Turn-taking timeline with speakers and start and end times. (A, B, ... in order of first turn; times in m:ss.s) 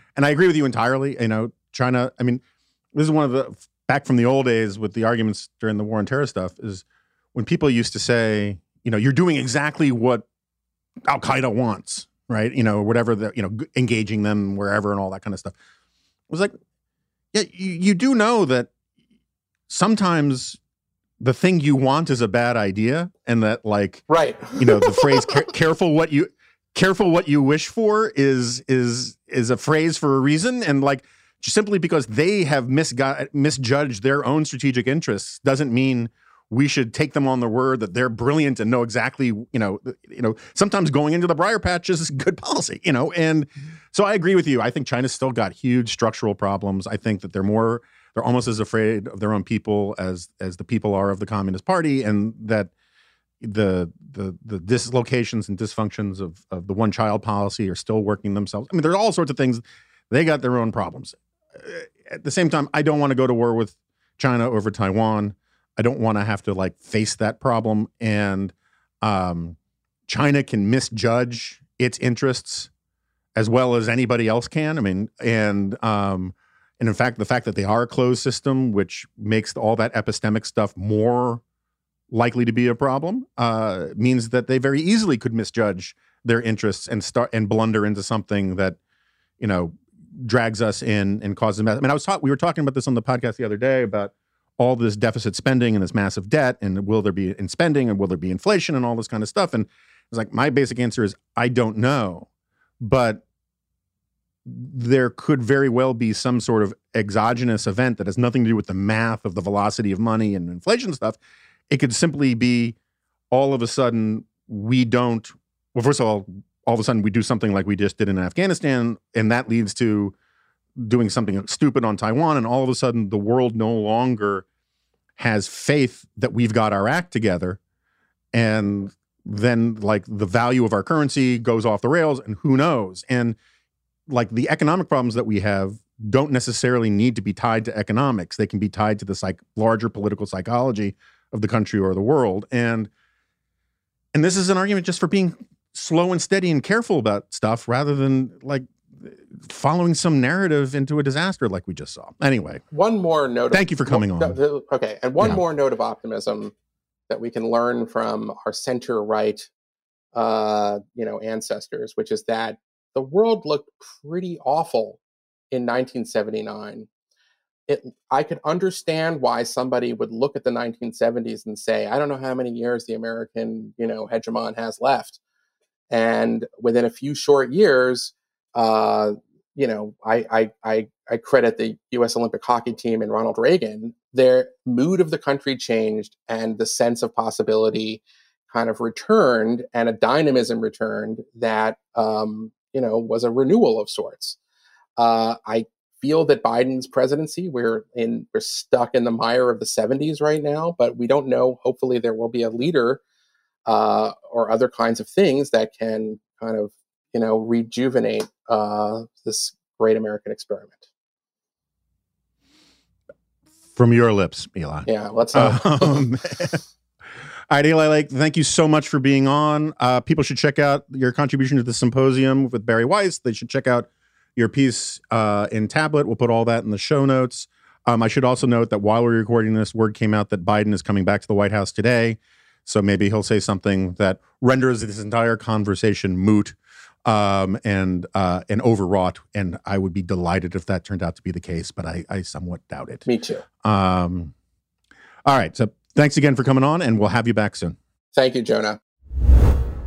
0:00.2-0:02.4 A
0:02.9-0:10.2 A
0:11.1-0:15.6 A
0:16.3-0:16.5 A
0:17.3-0:18.7 A
0:19.7-0:20.6 A
0:21.2-0:52.7 A
0:24.1-0:25.3 B
0:53.4-1:12.7 A
1:13.3-1:21.4 A
1:22.1-1:28.8 A
1:29.4-1:42.3 A
1:42.8-1:43.2 A
1:44.4-1:51.2 A
1:51.7-1:52.8 A
1:53.3-2:00.1 A
2:00.8-2:04.4 A
2:05.2-2:07.6 A
2:08.3-2:13.4 A
2:14.1-2:22.9 A
2:24.1-2:32.6 A
2:32.7-2:36.5 B
2:33.5-2:34.4 A
2:37.1-2:39.5 B
2:40.1-2:45.0 B
2:45.5-2:46.9 B
2:47.7-2:55.2 B
2:55.9-3:14.4 B
3:15.0-3:23.0 B
3:23.7-3:30.9 B
3:33.8-3:36.6 A
3:34.9-3:36.0 B
3:37.5-4:03.0 A
4:03.0-4:03.4 B
4:03.6-4:04.3 A
4:05.2-4:07.8 A
4:08.1-4:08.8 B